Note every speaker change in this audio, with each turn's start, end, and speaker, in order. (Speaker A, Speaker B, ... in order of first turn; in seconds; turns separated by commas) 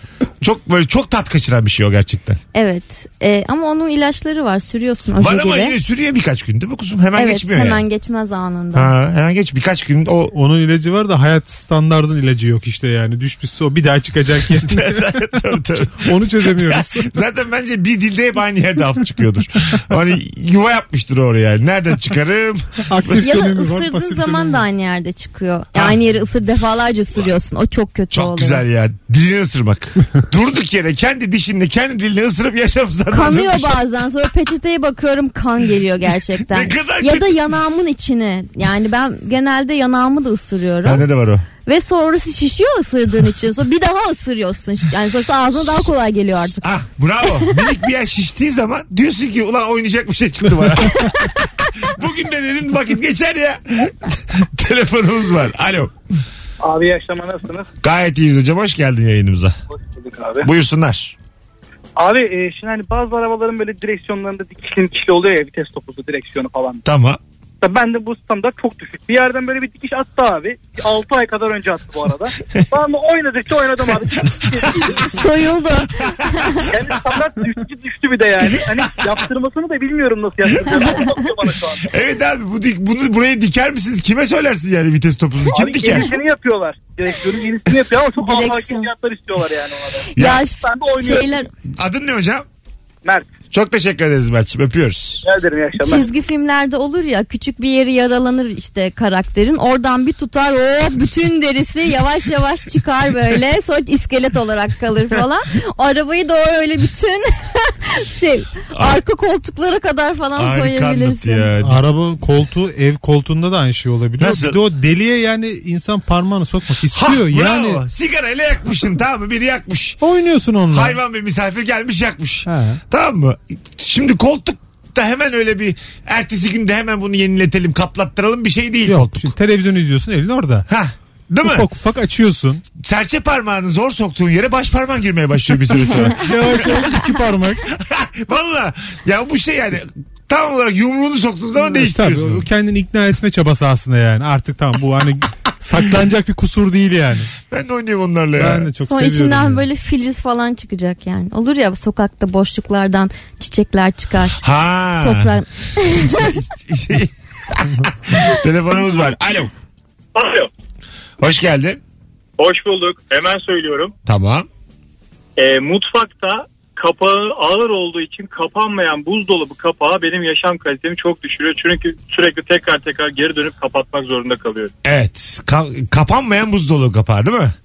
Speaker A: 0.4-2.4, Speaker B: 2.5-5.7, Speaker A: 5.2-7.8, Speaker B: 7.2-8.9, Speaker A: 8.7-10.3, Speaker C: 10.3-15.2, Speaker A: 14.5-23.2, Speaker C: 16.0-17.1, Speaker C: 22.9-24.6, Speaker B: 23.2-28.6, Speaker A: 28.1-33.8, Speaker B: 33.1-41.0, Speaker A: 36.5-37.4, Speaker A: 40.8-41.5, Speaker B: 41.6-46.6, Speaker A: 46.6-55.9, Speaker B: 47.2-47.6, Speaker D: 56.6-57.7, Speaker A: 57.8-59.5, Speaker D: 59.7-60.5, Speaker A: 60.4-61.1, Speaker D: 62.0-66.8, Speaker A: 66.8-67.2, Speaker D: 67.6-75.2, Speaker B: 75.0-76.7, Speaker D: 76.7-81.9, Speaker A: 81.8-86.1, Speaker D: 85.5-91.4, Speaker B: 88.2-88.9, Speaker B: 90.1-91.5, Speaker A: 90.2-90.4, Speaker A: 91.8-92.4, Speaker D: 93.0-93.3, Speaker A: 93.5-95.2, Speaker D: 95.2-96.1, Speaker B: 95.8-111.5, Speaker A: 108.7-109.0, Speaker A: 110.3-111.8, Speaker C: 111.6-117.8, Speaker A: 114.2-114.6, Speaker A: 116.9-120.0, Speaker C: 120.0-121.0, Speaker A: 120.7-129.3, Speaker C: 122.5-122.8, Speaker C: 128.8-130.7, Speaker A: 130.7-131.7, Speaker C: 131.4-132.6, Speaker A: 132.8-136.8, Speaker C: 136.1-137.7, Speaker A: 137.7-142.4, Speaker C: 141.6-147.3, Speaker A: 147.5-148.7, Speaker C: 148.3-149.6, Speaker B: 148.8-154.4, Speaker A: 154.4-155.4, Speaker B: 155.0-156.4, Speaker A: 155.9-159.5, Speaker E: 160.1-160.5, Speaker A: 161.2-161.8, Speaker E: 162.4-163.9, Speaker A: 164.1-164.5, Speaker E: 165.4-174.7, Speaker A: 174.8-177.5